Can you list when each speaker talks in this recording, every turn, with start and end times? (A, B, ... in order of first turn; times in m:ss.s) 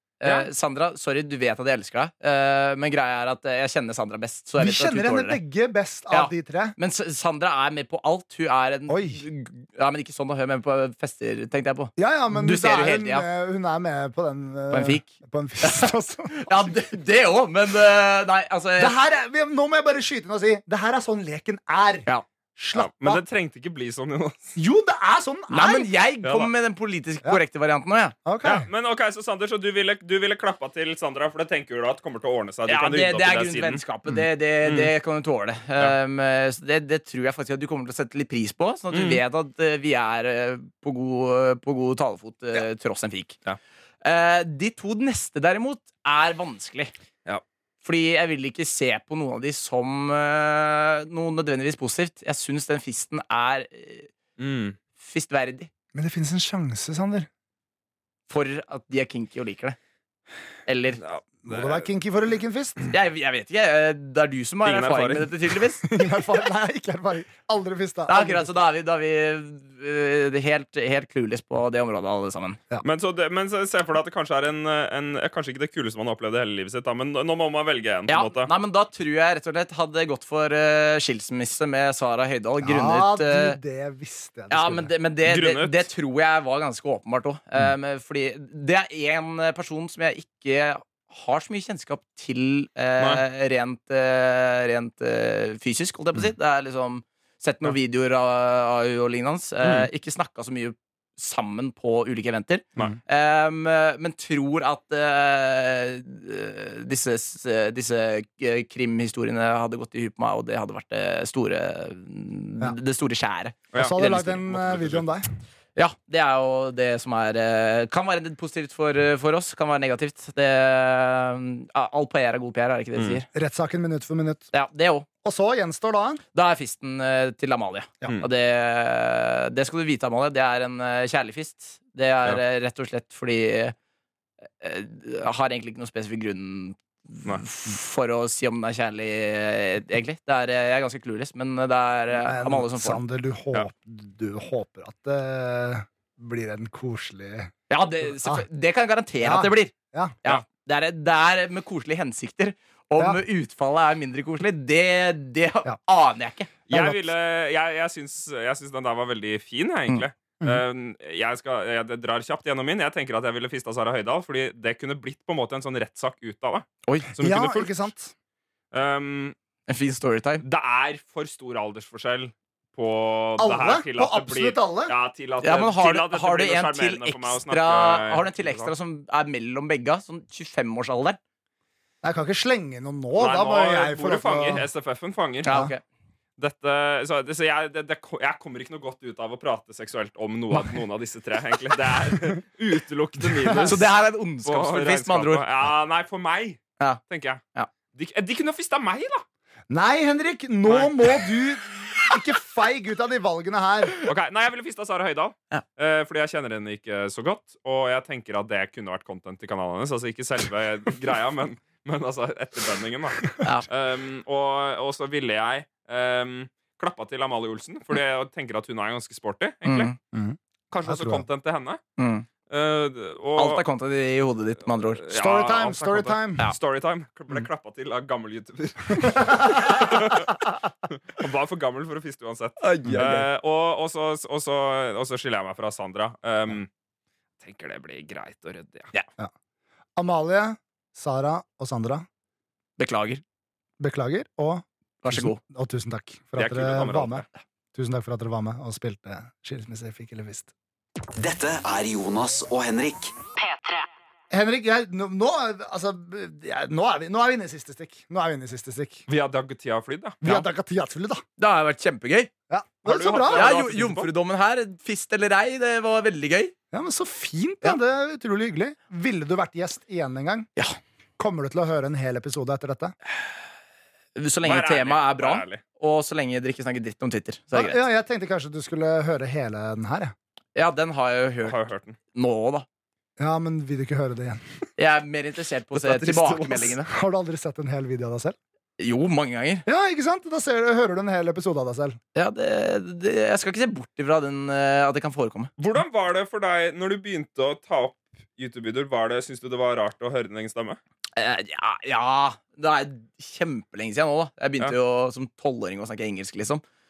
0:00.2-0:05.4 A
0:00.2-0:00.5 B
0:04.6-0:06.8 C
0:06.1-0:13.3 A
0:08.9-0:09.2 C
0:12.0-0:16.7 C
0:14.7-0:19.0 A
0:18.8-0:23.2 C
0:22.7-0:24.4 B
0:24.6-0:25.9 C
0:25.5-0:28.2 A
0:26.2-0:26.5 B
0:28.2-0:28.7 C
0:28.4-0:33.8 B
0:32.7-0:43.4 A
0:34.6-0:34.9 B
0:38.9-0:39.2 B
0:44.0-0:46.9 A
0:47.8-0:54.1 A
0:54.4-0:54.8 B
0:55.0-0:55.7 A
0:55.9-0:57.3 C
0:58.3-0:59.8 A
1:00.7-1:01.0 A
1:01.0-1:01.9 B
1:01.4-1:02.8 C
1:02.9-1:05.8 A
1:04.6-1:05.3 B
1:05.8-1:08.5 C
1:08.1-1:12.6 A
1:12.8-1:18.5 B
1:18.1-1:23.6 A
1:22.6-1:24.9 C
1:24.5-1:54.4 A
1:25.2-1:25.9 B
1:33.0-1:33.2 B
1:39.6-1:39.9 B
1:53.7-1:55.0 B
1:53.8-1:55.3 C
1:55.8-2:03.3 A
2:03.3-2:04.5 C
2:04.5-2:05.1 A
2:05.2-2:06.2 C
2:06.3-2:13.8 A
2:14.6-2:23.0 A
2:22.2-2:27.5 C
2:27.7-2:29.7 A
2:28.0-2:28.4 C
2:29.2-2:30.2 C
2:30.2-2:36.5 A
2:36.7-2:47.9 B
2:36.7-2:37.1 C
2:47.2-2:48.1 C
2:48.7-2:49.4 B
2:49.7-2:50.4 A
2:50.4-2:58.7 B
2:53.4-2:54.9 C
2:55.4-3:01.2 A
3:02.0-3:04.6 C
3:03.1-3:05.5 B
3:05.4-3:05.8 A
3:06.4-3:13.9 B
3:13.2-3:13.8 C
3:13.6-3:15.4 A
3:14.4-3:17.4 B
3:17.9-3:19.2 B
3:19.7-3:24.0 C
3:20.7-3:21.0 B
3:24.0-3:39.9 B
3:33.4-3:33.7 A
3:39.6-3:40.0 A
3:40.1-3:41.2 C
3:40.7-3:41.8 B
3:42.0-3:42.3 A
3:42.5-3:43.6 B
3:43.4-3:45.0 A
3:45.0-3:50.4 B
3:45.1-3:46.5 C
3:49.1-3:50.0 C
3:51.1-3:56.7 B
3:52.6-3:53.2 A
3:52.8-3:53.2 C
3:57.4-3:58.9 B
4:00.0-4:02.1 C
4:02.8-4:03.2 A
4:03.8-4:10.5 C
4:05.0-4:05.4 A
4:06.4-4:07.3 B
4:11.2-4:13.1 D
4:14.3-4:19.1 C
4:19.1-4:20.5 B
4:20.2-4:21.2 C
4:21.4-4:22.3 A
4:22.5-4:23.5 C
4:22.9-4:24.1 B
4:23.3-4:26.5 A
4:26.7-4:30.5 C
4:31.2-4:33.0 C
4:34.2-4:37.8 A
4:34.4-4:35.6 B
4:37.5-4:40.1 C
4:40.6-4:41.6 A
4:41.4-4:42.0 B
4:42.1-4:42.7 A
4:43.2-4:44.4 C
4:44.8-4:46.9 A
4:45.9-4:48.4 C
4:48.8-4:49.6 A
4:49.7-4:52.0 C
4:52.2-4:55.5 A
4:55.6-5:00.8 B
5:01.2-5:06.6 A